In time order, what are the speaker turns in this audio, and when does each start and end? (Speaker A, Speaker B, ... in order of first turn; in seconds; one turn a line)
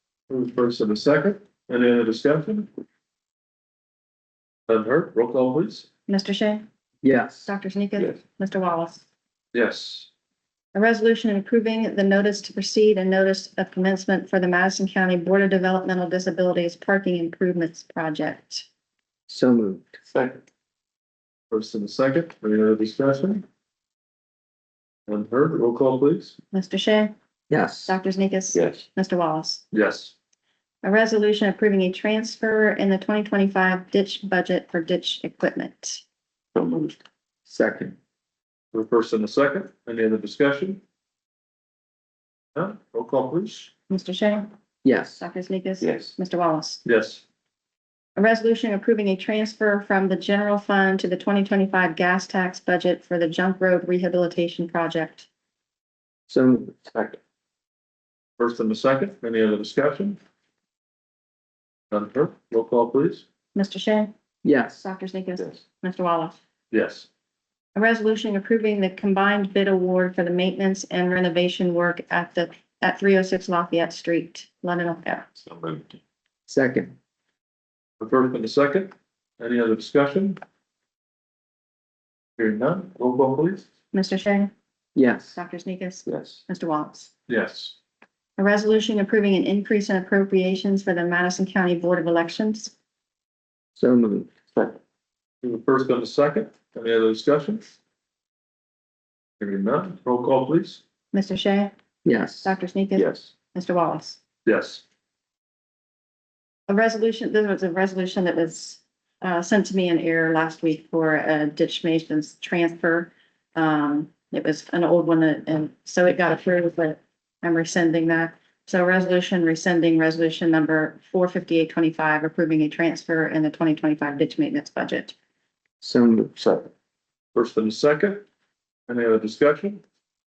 Speaker A: 0.3-2.7
Speaker A: 4.7-5.9
Speaker B: 6.1-6.6
Speaker C: 7.0-7.5
Speaker B: 7.4-9.0
Speaker A: 9.5-10.1
Speaker B: 10.7-18.6
Speaker C: 19.3-20.0
Speaker A: 21.5-23.4
Speaker A: 25.1-26.4
Speaker B: 26.5-27.1
Speaker C: 27.5-28.0
Speaker B: 27.9-29.6
Speaker D: 28.5-28.8
Speaker A: 29.7-30.1
Speaker B: 30.8-36.0
Speaker D: 36.5-37.0
Speaker C: 37.5-38.0
Speaker A: 38.7-40.8
Speaker A: 42.5-43.7
Speaker B: 43.9-44.5
Speaker C: 44.8-45.2
Speaker B: 45.2-46.8
Speaker D: 45.8-46.1
Speaker A: 46.8-47.2
Speaker B: 48.1-55.3
Speaker C: 56.3-56.8
Speaker A: 58.4-60.2
Speaker A: 61.9-63.2
Speaker B: 63.5-64.1
Speaker C: 64.4-64.8
Speaker B: 64.8-66.4
Speaker A: 66.7-67.1
Speaker B: 67.7-75.3
Speaker D: 75.4-76.0
Speaker C: 76.5-76.9
Speaker A: 78.0-80.4
Speaker A: 82.4-83.7
Speaker B: 83.9-84.5
Speaker C: 85.0-85.4
Speaker B: 85.3-87.1
Speaker A: 87.3-87.7
Speaker B: 88.4-92.7
Speaker C: 93.8-94.3
Speaker A: 95.4-97.7
Speaker A: 99.4-100.8
Speaker B: 101.1-101.7
Speaker C: 102.0-102.5
Speaker B: 102.4-104.2
Speaker D: 103.0-103.3
Speaker A: 104.4-104.8
Speaker B: 106.7-125.1
Speaker C: 125.8-126.3
Speaker A: 127.3-128.2
Speaker A: 128.9-129.8